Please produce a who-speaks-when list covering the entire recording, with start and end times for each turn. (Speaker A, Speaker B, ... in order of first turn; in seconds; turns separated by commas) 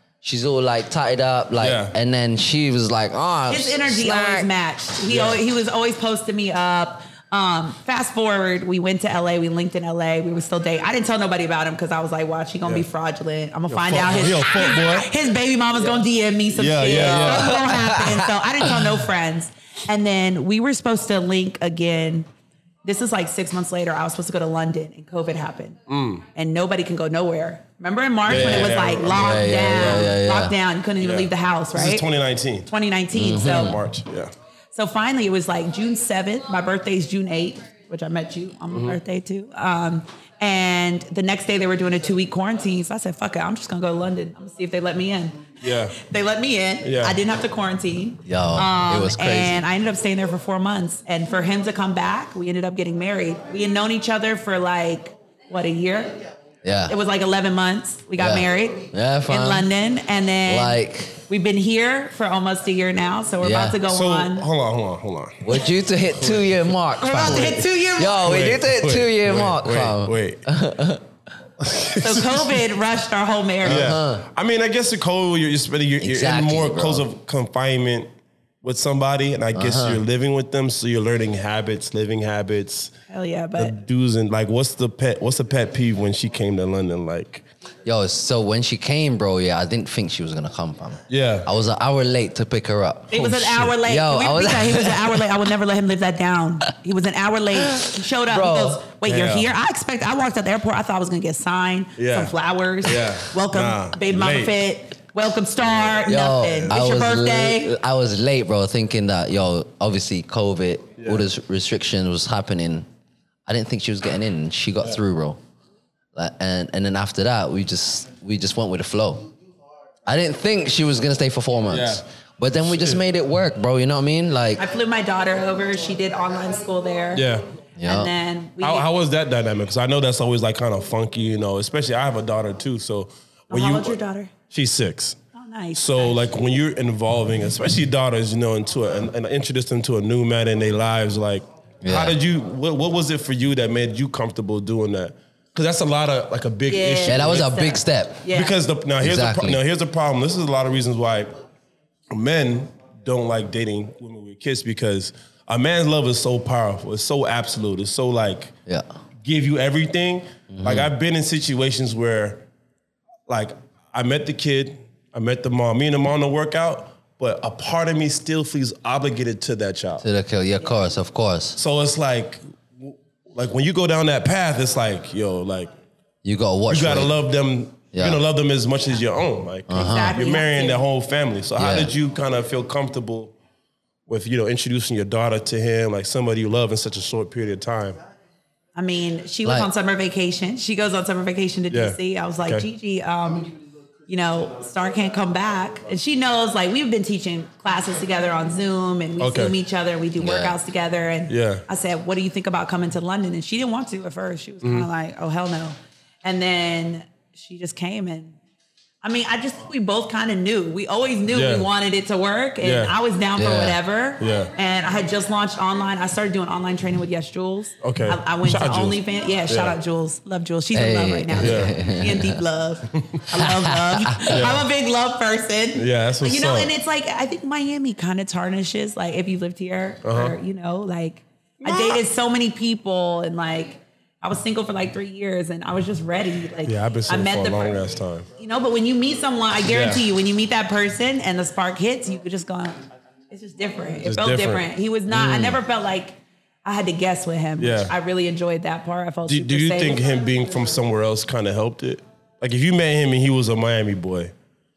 Speaker A: 0.2-4.5, Speaker B: 1.6-1.9, Speaker C: 3.5-22.3, Speaker B: 5.1-5.4, Speaker B: 13.7-15.1, Speaker B: 16.5-17.6, Speaker A: 16.8-18.3, Speaker C: 22.8-25.8, Speaker B: 25.9-26.2, Speaker C: 26.3-32.0, Speaker B: 28.2-30.1, Speaker A: 28.3-30.5, Speaker B: 31.0-32.7, Speaker C: 32.7-33.8, Speaker A: 33.1-33.8, Speaker B: 33.3-34.3, Speaker C: 34.7-56.1, Speaker B: 38.7-39.0, Speaker B: 45.6-45.9, Speaker B: 46.8-47.2, Speaker A: 48.2-49.6, Speaker A: 56.6-56.9, Speaker C: 56.9-64.5, Speaker A: 58.2-59.7, Speaker A: 60.5-61.2, Speaker A: 63.4-63.8, Speaker B: 63.9-65.6, Speaker A: 65.4-71.0, Speaker B: 66.1-67.7, Speaker C: 67.0-68.5, Speaker B: 68.2-70.4, Speaker B: 71.6-72.6, Speaker C: 72.0-74.0, Speaker A: 73.6-74.2, Speaker B: 73.6-78.1, Speaker A: 76.0-77.0, Speaker B: 78.6-82.9, Speaker A: 79.5-80.0, Speaker C: 83.1-83.8, Speaker B: 83.6-87.4, Speaker A: 87.8-95.2, Speaker B: 91.1-91.5, Speaker C: 93.1-107.7, Speaker B: 93.2-93.7, Speaker A: 97.7-98.8, Speaker B: 99.0-99.5, Speaker B: 102.0-104.6, Speaker A: 106.1-112.9, Speaker B: 111.0-111.2, Speaker A: 113.5-115.4, Speaker A: 116.1-119.3, Speaker A: 120.1-124.6, Speaker B: 121.7-122.0, Speaker B: 122.6-123.0, Speaker C: 124.6-127.3, Speaker B: 127.1-127.4, Speaker A: 127.8-128.1, Speaker C: 127.8-128.9, Speaker B: 128.6-133.9, Speaker C: 133.5-134.3, Speaker B: 134.5-135.2, Speaker C: 135.3-136.2, Speaker B: 135.7-147.5, Speaker A: 141.8-142.2, Speaker C: 146.7-148.5, Speaker A: 147.1-148.3, Speaker B: 148.3-151.3, Speaker A: 149.0-149.6, Speaker B: 152.1-158.5, Speaker B: 159.2-162.4, Speaker A: 160.5-160.9, Speaker B: 163.3-170.0, Speaker A: 170.0-171.6, Speaker B: 171.6-175.7, Speaker A: 176.2-177.1, Speaker B: 176.7-183.3, Speaker A: 177.9-178.2, Speaker A: 179.7-180.1, Speaker C: 179.7-180.8, Speaker A: 181.6-181.9, Speaker B: 184.1-188.0, Speaker C: 188.7-193.5, Speaker A: 189.4-189.7, Speaker B: 191.7-192.7, Speaker C: 194.1-208.4, Speaker B: 199.2-199.5, Speaker A: 200.2-200.5, Speaker B: 201.3-201.6, Speaker C: 209.0-237.8, Speaker B: 211.3-211.7, Speaker B: 212.6-212.9, Speaker A: 213.4-213.8, Speaker B: 214.2-214.5, Speaker B: 217.8-219.8, Speaker A: 220.7-222.4, Speaker B: 221.4-221.7, Speaker B: 222.9-223.2, Speaker A: 223.4-224.3, Speaker B: 224.3-224.7, Speaker B: 225.8-226.7, Speaker B: 230.0-230.3, Speaker B: 231.6-232.0, Speaker B: 236.6-238.2, Speaker C: 238.4-250.0, Speaker B: 239.7-240.0, Speaker B: 244.0-244.6, Speaker B: 245.2-245.6, Speaker B: 247.6-247.9, Speaker B: 249.3-254.3